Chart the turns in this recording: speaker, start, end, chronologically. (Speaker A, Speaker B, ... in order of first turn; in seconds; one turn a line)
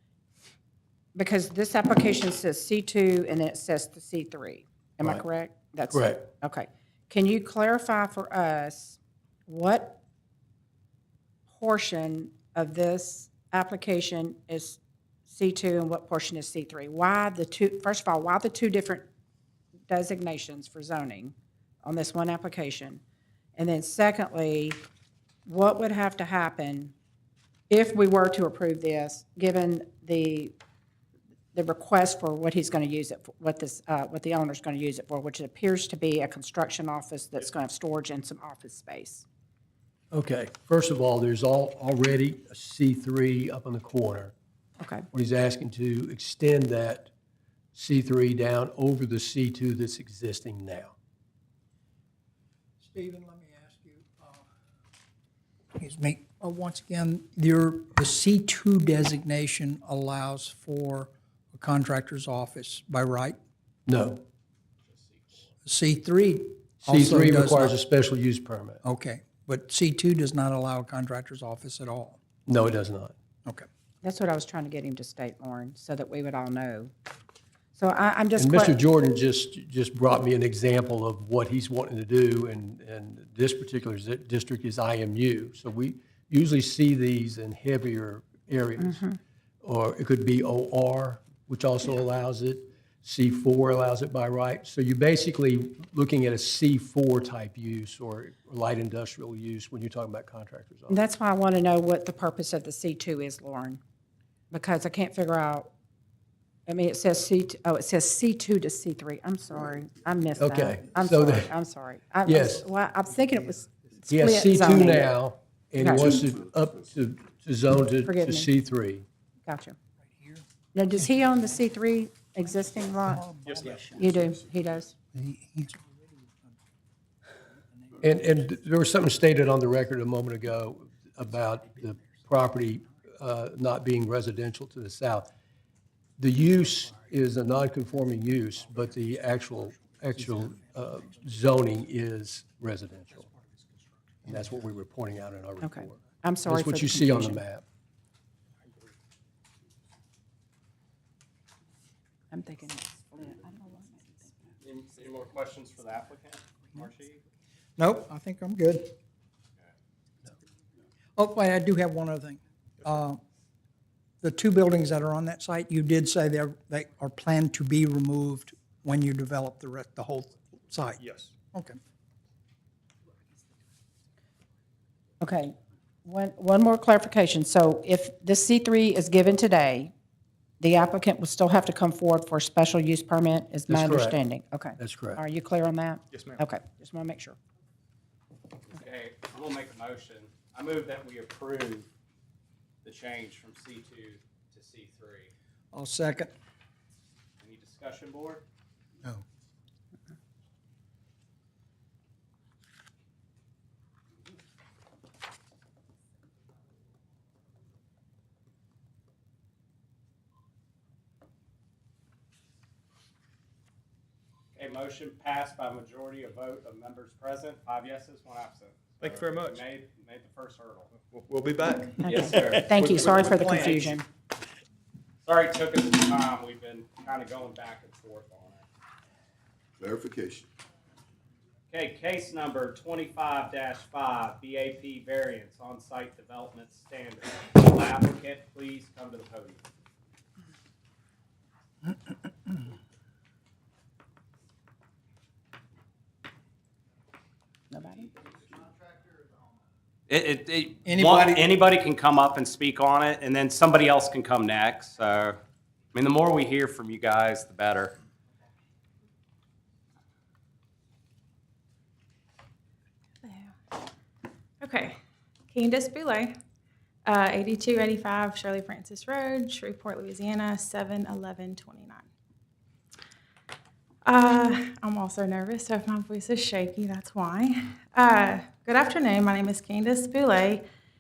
Speaker A: 1.1-10.0
Speaker B: 5.9-6.3
Speaker A: 11.5-19.1
Speaker A: 19.9-23.0
Speaker A: 23.6-24.8
Speaker A: 25.5-26.9
Speaker A: 27.7-30.5
Speaker A: 31.5-39.2
Speaker B: 40.1-44.3
Speaker A: 44.8-45.1
Speaker B: 45.1-47.1
Speaker B: 47.8-50.9
Speaker C: 52.8-54.5
Speaker C: 55.8-63.4
Speaker B: 63.9-64.2
Speaker D: 64.9-65.5
Speaker C: 65.7-67.8
Speaker B: 66.8-68.8
Speaker C: 68.8-72.2
Speaker B: 72.5-73.1
Speaker A: 74.0-76.9
Speaker A: 77.8-78.8
Speaker B: 78.4-89.0
Speaker A: 88.8-89.2
Speaker B: 89.6-101.0
Speaker A: 100.9-103.8
Speaker A: 104.5-105.7
Speaker A: 106.7-115.1
Speaker B: 110.4-111.5
Speaker B: 112.2-112.7
Speaker C: 113.2-113.9
Speaker B: 114.1-119.1
Speaker A: 115.8-116.2
Speaker A: 118.0-118.5
Speaker A: 119.5-119.8
Speaker C: 120.0-120.5
Speaker A: 120.7-123.3
Speaker C: 123.1-124.1
Speaker E: 123.8-124.2
Speaker A: 123.9-124.9
Speaker C: 125.1-126.6
Speaker C: 127.7-128.4
Speaker B: 128.0-135.3
Speaker B: 136.2-143.3
Speaker B: 144.3-147.6
Speaker A: 145.6-147.4
Speaker A: 152.3-154.6
Speaker D: 154.6-157.2
Speaker C: 157.8-158.9
Speaker C: 161.2-163.2
Speaker C: 164.2-171.8
Speaker E: 171.1-171.3
Speaker A: 175.2-179.9
Speaker A: 180.6-187.4
Speaker B: 183.7-184.2
Speaker B: 184.8-185.2
Speaker D: 188.7-191.9
Speaker D: 192.8-195.3
Speaker C: 195.7-196.3
Speaker D: 197.4-198.4
Speaker D: 214.6-220.9
Speaker E: 219.0-219.6
Speaker E: 220.9-223.2
Speaker D: 222.0-223.9
Speaker A: 222.0-224.1
Speaker D: 225.2-228.6
Speaker E: 229.8-230.4
Speaker D: 231.7-239.6
Speaker A: 247.7-248.1
Speaker D: 250.1-255.4
Speaker C: 250.8-251.6
Speaker D: 255.9-257.9
Speaker F: 263.2-263.5
Speaker F: 264.6-264.9
Speaker F: 265.5-266.4
Speaker F: 267.1-272.1
Speaker F: 274.1-280.6